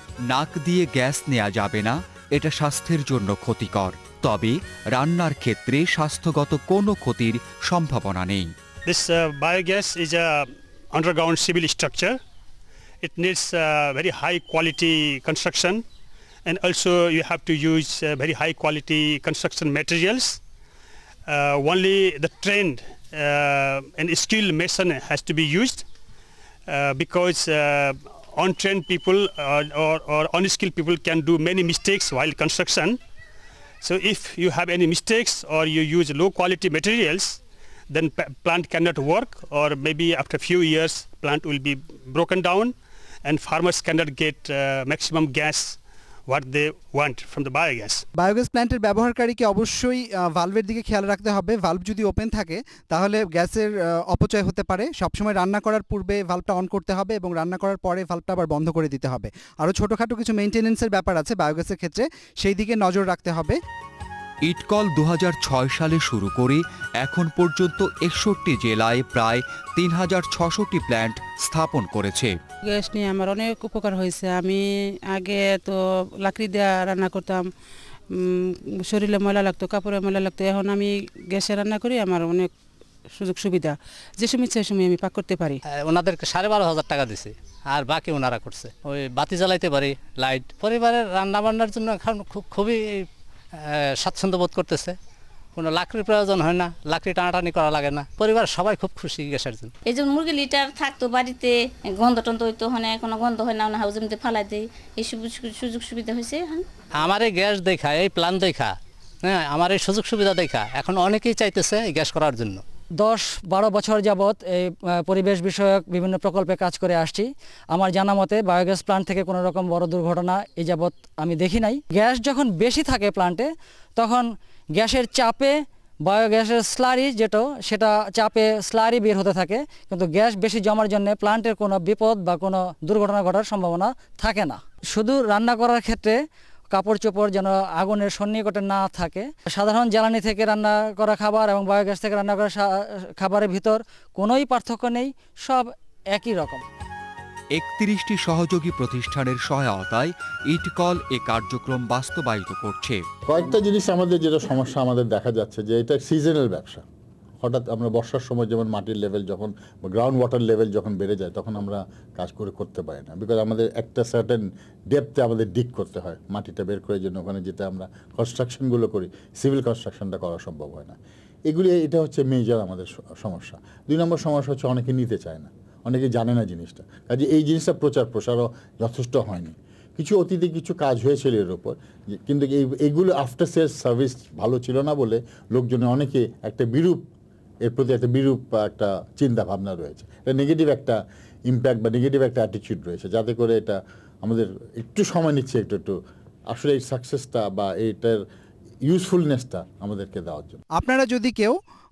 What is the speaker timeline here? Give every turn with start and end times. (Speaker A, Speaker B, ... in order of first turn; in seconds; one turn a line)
Speaker A: 0.3-8.5
Speaker B: 8.9-12.2
Speaker B: 13.0-15.8
Speaker B: 16.5-20.4
Speaker B: 21.3-25.9
Speaker B: 26.7-33.0
Speaker B: 33.8-37.4
Speaker B: 37.9-42.7
Speaker B: 43.2-48.0
Speaker C: 48.2-63.6
Speaker A: 64.5-72.3
Speaker D: 72.6-77.5
Speaker D: 78.1-82.5
Speaker D: 83.1-85.6
Speaker E: 85.8-93.0
Speaker E: 94.0-95.0
Speaker E: 95.6-99.7
Speaker F: 99.9-106.7
Speaker E: 107.0-112.6
Speaker G: 113.0-146.6
Speaker A: 147.6-153.0
Speaker H: 153.3-156.8
Speaker H: 157.4-171.0
Speaker H: 171.5-187.1
Speaker H: 187.6-196.0
Speaker H: 196.5-198.2
Speaker H: 198.9-200.6
Speaker C: 200.8-201.6